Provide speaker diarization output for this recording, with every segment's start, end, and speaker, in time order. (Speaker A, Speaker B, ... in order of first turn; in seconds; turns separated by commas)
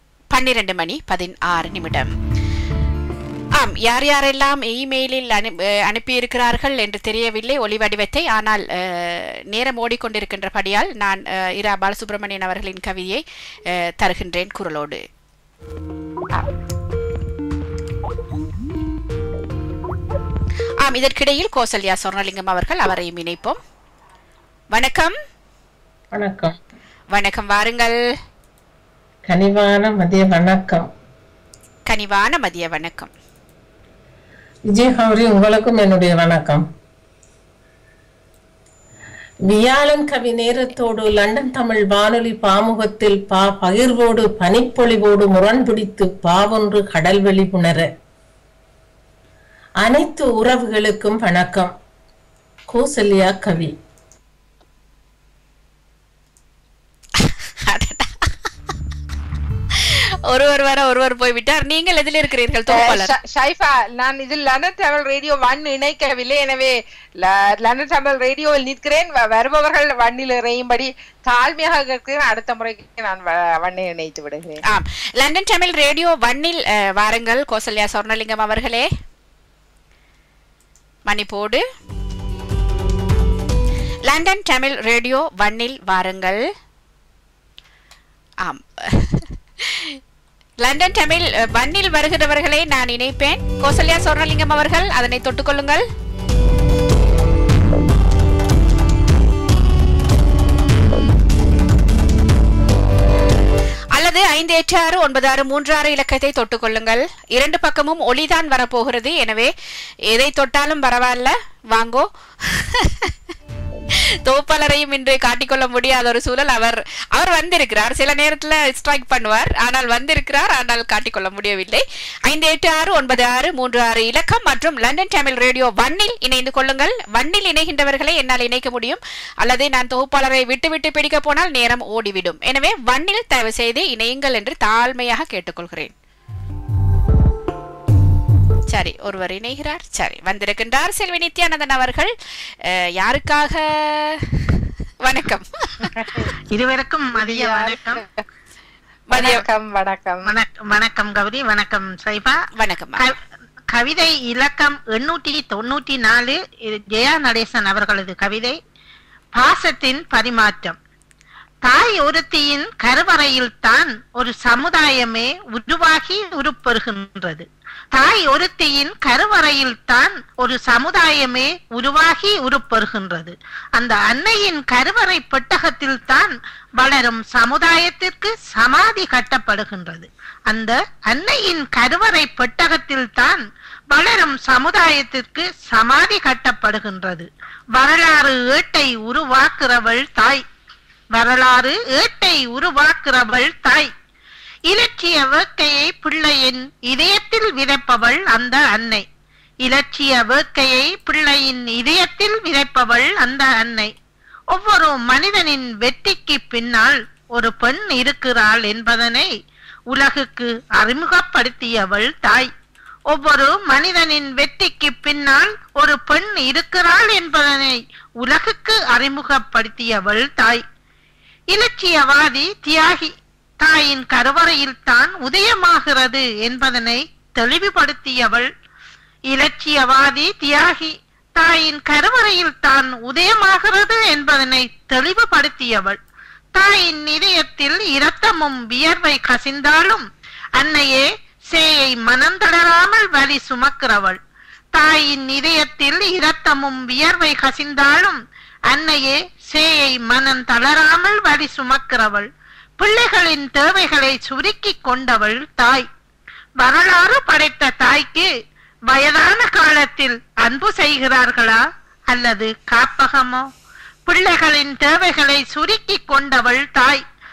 Speaker A: 0.3-2.1, Speaker A: 3.6-15.0, Speaker A: 20.8-23.6, Speaker A: 24.7-25.1, Speaker B: 26.1-26.6, Speaker A: 27.1-27.9, Speaker B: 29.3-30.9, Speaker A: 31.9-33.1, Speaker B: 34.7-36.6, Speaker B: 39.5-47.9, Speaker B: 49.8-51.7, Speaker B: 52.7-53.7, Speaker A: 57.2-58.3, Speaker A: 59.8-63.1, Speaker C: 62.7-74.6, Speaker A: 74.7-78.9, Speaker A: 81.1-81.6, Speaker A: 84.0-86.4, Speaker A: 88.4-90.0, Speaker A: 90.6-95.8, Speaker A: 104.0-109.5, Speaker A: 110.1-113.1, Speaker A: 114.2-135.9, Speaker A: 138.7-142.1, Speaker A: 142.6-145.9, Speaker C: 145.8-146.3, Speaker D: 146.5-148.0, Speaker C: 147.2-148.2, Speaker A: 149.1-149.4, Speaker C: 149.1-150.3, Speaker D: 150.2-152.4, Speaker A: 152.5-153.0, Speaker D: 153.7-158.6, Speaker D: 159.3-160.8, Speaker D: 161.6-190.4, Speaker D: 191.1-193.9, Speaker D: 194.7-199.0, Speaker D: 199.6-203.9, Speaker D: 204.5-209.3, Speaker D: 209.9-212.5, Speaker D: 213.1-220.6, Speaker D: 221.5-228.5, Speaker D: 229.3-236.0, Speaker D: 236.5-240.0, Speaker D: 240.6-244.2, Speaker D: 244.7-248.2, Speaker D: 248.7-252.3, Speaker D: 252.8-255.8, Speaker D: 256.6-258.3, Speaker D: 258.9-263.4, Speaker D: 264.1-267.0